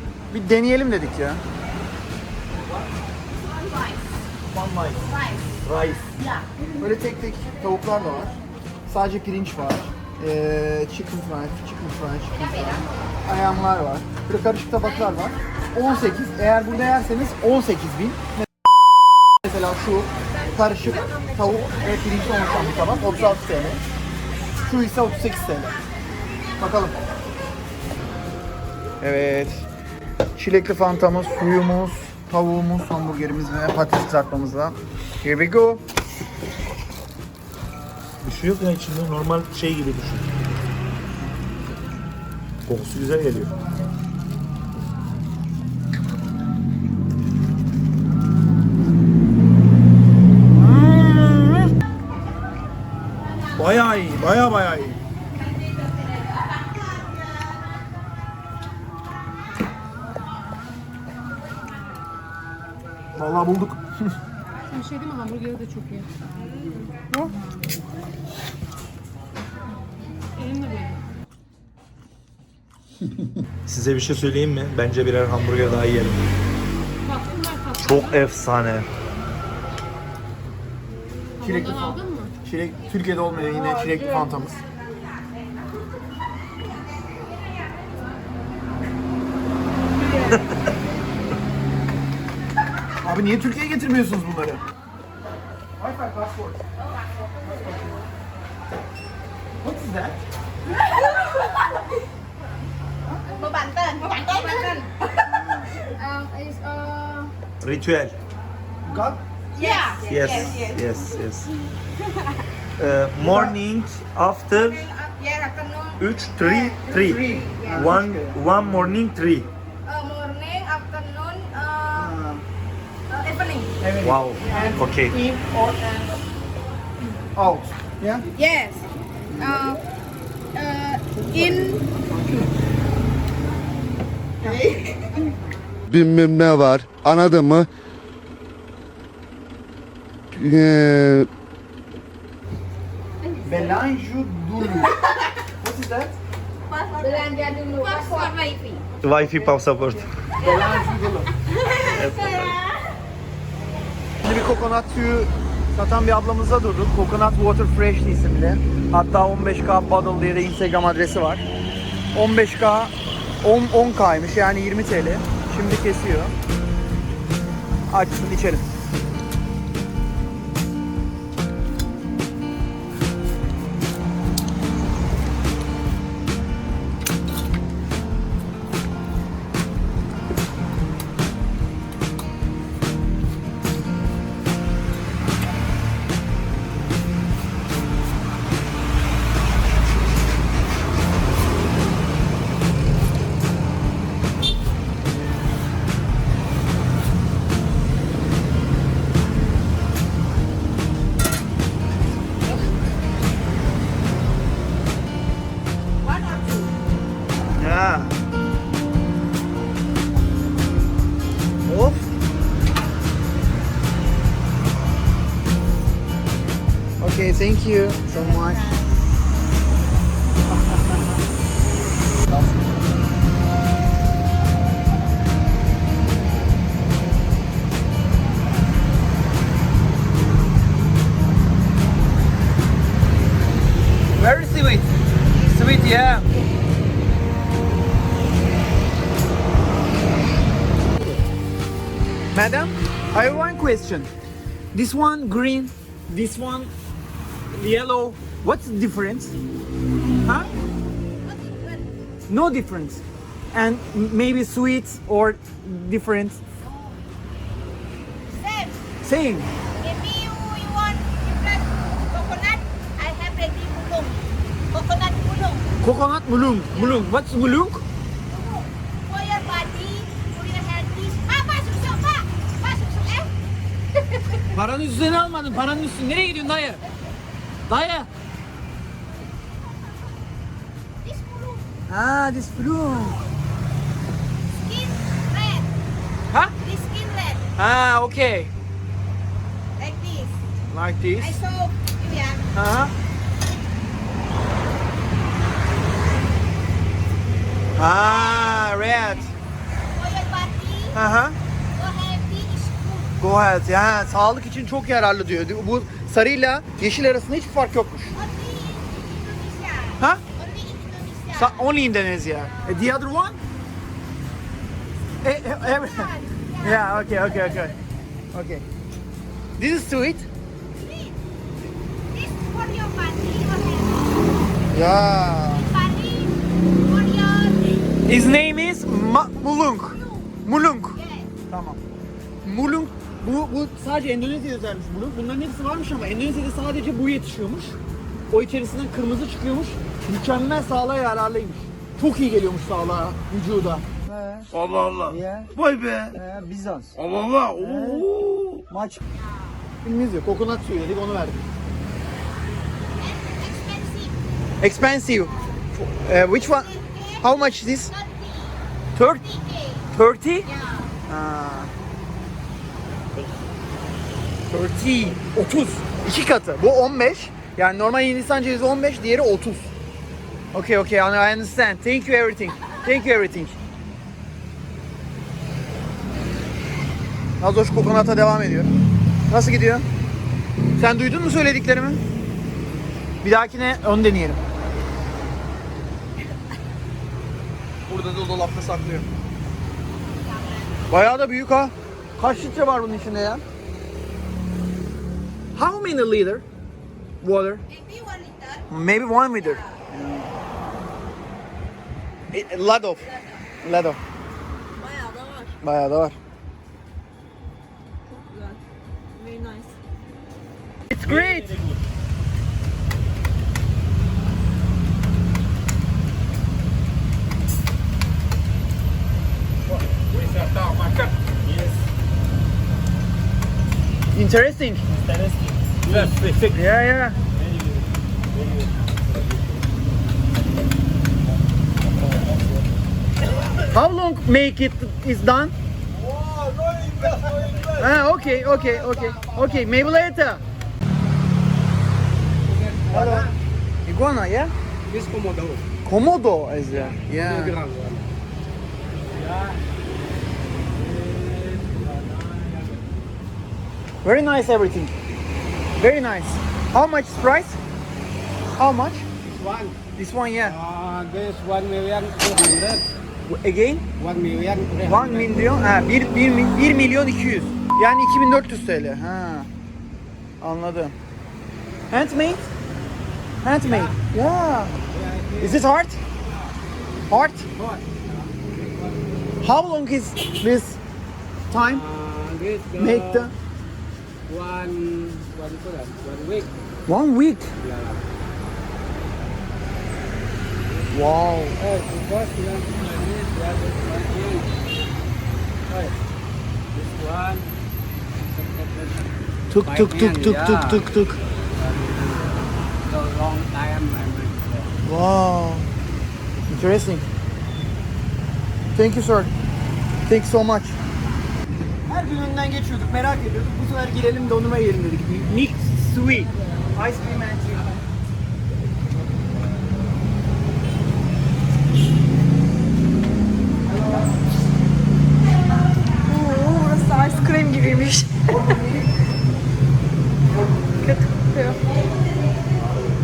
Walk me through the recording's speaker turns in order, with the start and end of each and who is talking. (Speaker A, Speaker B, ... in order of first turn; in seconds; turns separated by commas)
Speaker A: 0.3-1.4, Speaker A: 4.5-5.0, Speaker B: 5.6-6.1, Speaker A: 6.8-18.4, Speaker A: 19.4-23.8, Speaker A: 24.6-25.8, Speaker A: 26.6-27.0, Speaker A: 29.0-29.7, Speaker A: 30.4-35.8, Speaker B: 38.2-40.3, Speaker B: 42.7-43.5, Speaker A: 50.5-51.7, Speaker A: 53.5-55.0, Speaker A: 63.1-64.1, Speaker C: 64.7-66.1, Speaker C: 70.4-71.0, Speaker B: 73.7-76.2, Speaker C: 77.1-78.1, Speaker B: 77.8-78.9, Speaker A: 81.4-84.6, Speaker C: 81.4-82.3, Speaker A: 93.0-94.6, Speaker A: 95.8-96.6, Speaker A: 99.6-100.2, Speaker D: 103.5-104.9, Speaker A: 105.2-105.7, Speaker B: 107.6-108.2, Speaker A: 108.8-109.2, Speaker D: 109.6-110.6, Speaker B: 110.0-111.5, Speaker B: 112.8-114.9, Speaker A: 113.2-113.6, Speaker D: 115.2-116.0, Speaker B: 116.0-117.2, Speaker A: 116.5-118.4, Speaker B: 117.7-119.5, Speaker D: 119.9-121.8, Speaker A: 121.9-122.4, Speaker A: 123.8-126.2, Speaker B: 124.0-125.2, Speaker A: 127.3-128.3, Speaker A: 129.3-129.8, Speaker A: 131.3-132.5, Speaker E: 135.9-137.7, Speaker E: 140.3-141.3, Speaker A: 143.4-145.0, Speaker A: 145.6-146.2, Speaker D: 146.9-148.7, Speaker B: 149.0-150.1, Speaker A: 150.4-151.3, Speaker B: 151.9-152.6, Speaker A: 154.2-161.5, Speaker A: 162.1-166.3, Speaker A: 167.9-168.7, Speaker A: 207.6-208.2, Speaker A: 211.7-212.1, Speaker A: 217.0-218.8, Speaker A: 234.2-234.9, Speaker A: 235.5-236.3, Speaker A: 242.3-244.1, Speaker A: 244.7-246.7, Speaker A: 247.5-249.4, Speaker A: 250.2-250.5, Speaker D: 251.3-251.8, Speaker A: 252.3-256.4, Speaker D: 258.3-258.8, Speaker A: 259.0-259.5, Speaker D: 259.8-265.6, Speaker A: 265.8-267.9, Speaker D: 268.3-273.3, Speaker A: 274.5-276.8, Speaker A: 277.7-278.1, Speaker D: 281.0-281.6, Speaker A: 281.9-283.2, Speaker D: 284.6-285.7, Speaker D: 286.6-287.4, Speaker A: 287.6-288.5, Speaker D: 289.8-290.4, Speaker A: 290.7-291.4, Speaker D: 291.2-292.4, Speaker A: 292.5-292.9, Speaker A: 297.8-299.3, Speaker D: 297.9-298.7, Speaker D: 300.0-301.0, Speaker A: 300.9-301.4, Speaker D: 301.8-303.2, Speaker A: 303.2-308.1, Speaker D: 308.1-311.7, Speaker A: 311.3-313.4, Speaker A: 315.2-317.8, Speaker D: 315.8-317.7, Speaker A: 318.3-318.6, Speaker A: 319.6-320.3, Speaker D: 320.8-321.2, Speaker D: 322.1-324.3, Speaker A: 324.7-325.7, Speaker D: 325.7-327.9, Speaker A: 328.1-331.8, Speaker D: 329.9-330.3, Speaker D: 331.0-331.3, Speaker A: 332.4-337.8, Speaker A: 338.3-344.5, Speaker B: 344.7-346.2, Speaker A: 345.0-345.5, Speaker A: 346.1-347.0, Speaker B: 347.2-348.6, Speaker A: 347.5-348.1, Speaker A: 348.7-349.0, Speaker A: 349.8-351.5, Speaker D: 353.0-354.1, Speaker A: 354.6-357.9, Speaker D: 356.5-357.3, Speaker D: 357.9-358.6, Speaker A: 358.9-359.3, Speaker D: 359.3-359.9, Speaker A: 359.9-360.5, Speaker D: 360.4-360.9, Speaker A: 361.1-361.7, Speaker A: 364.5-369.7, Speaker A: 370.5-373.6, Speaker A: 377.4-378.7, Speaker A: 379.3-379.9, Speaker A: 380.8-382.0, Speaker A: 383.2-384.4, Speaker A: 387.9-389.1, Speaker A: 390.9-393.4, Speaker A: 395.6-396.4, Speaker A: 397.2-397.6, Speaker D: 397.7-398.6, Speaker A: 398.7-400.3, Speaker A: 402.3-403.1, Speaker A: 403.6-404.0, Speaker A: 405.6-406.2, Speaker A: 410.9-411.6, Speaker B: 411.3-411.8, Speaker B: 421.4-421.8, Speaker A: 424.1-424.8, Speaker B: 424.9-426.6, Speaker A: 426.6-427.2, Speaker B: 428.3-429.4, Speaker A: 433.7-435.6, Speaker B: 437.1-437.3, Speaker A: 437.8-440.4, Speaker F: 439.2-439.5, Speaker F: 442.5-443.3, Speaker A: 442.9-443.3, Speaker A: 443.9-444.5, Speaker F: 444.9-445.6, Speaker A: 445.9-447.6, Speaker F: 446.7-448.0, Speaker F: 449.1-449.6, Speaker F: 450.8-452.8, Speaker A: 454.0-454.9, Speaker A: 455.8-457.6, Speaker A: 458.6-459.1, Speaker F: 459.2-459.8, Speaker A: 460.0-460.6, Speaker F: 460.4-462.9, Speaker A: 463.3-463.9, Speaker F: 464.0-465.5, Speaker A: 464.8-469.5, Speaker A: 470.4-470.9, Speaker A: 471.9-472.5, Speaker A: 473.4-474.8, Speaker F: 473.6-473.9, Speaker F: 474.9-475.7, Speaker A: 475.4-476.0, Speaker A: 477.1-477.5, Speaker F: 477.6-479.0, Speaker A: 479.4-480.8, Speaker A: 481.5-481.9, Speaker F: 481.7-483.3, Speaker A: 482.8-483.3, Speaker F: 484.3-486.5, Speaker A: 486.9-487.5, Speaker F: 487.6-488.0, Speaker A: 490.9-491.6, Speaker F: 491.6-494.5, Speaker F: 496.7-497.5, Speaker F: 498.3-499.1, Speaker A: 499.5-501.2, Speaker F: 499.6-500.8, Speaker F: 501.6-504.7, Speaker A: 504.8-505.7, Speaker A: 506.5-507.1, Speaker A: 508.8-509.3, Speaker A: 510.1-510.8, Speaker A: 511.9-517.8, Speaker A: 523.7-524.1, Speaker G: 526.1-528.4, Speaker A: 528.3-528.9, Speaker A: 530.3-530.6, Speaker G: 530.8-531.6, Speaker B: 532.6-532.9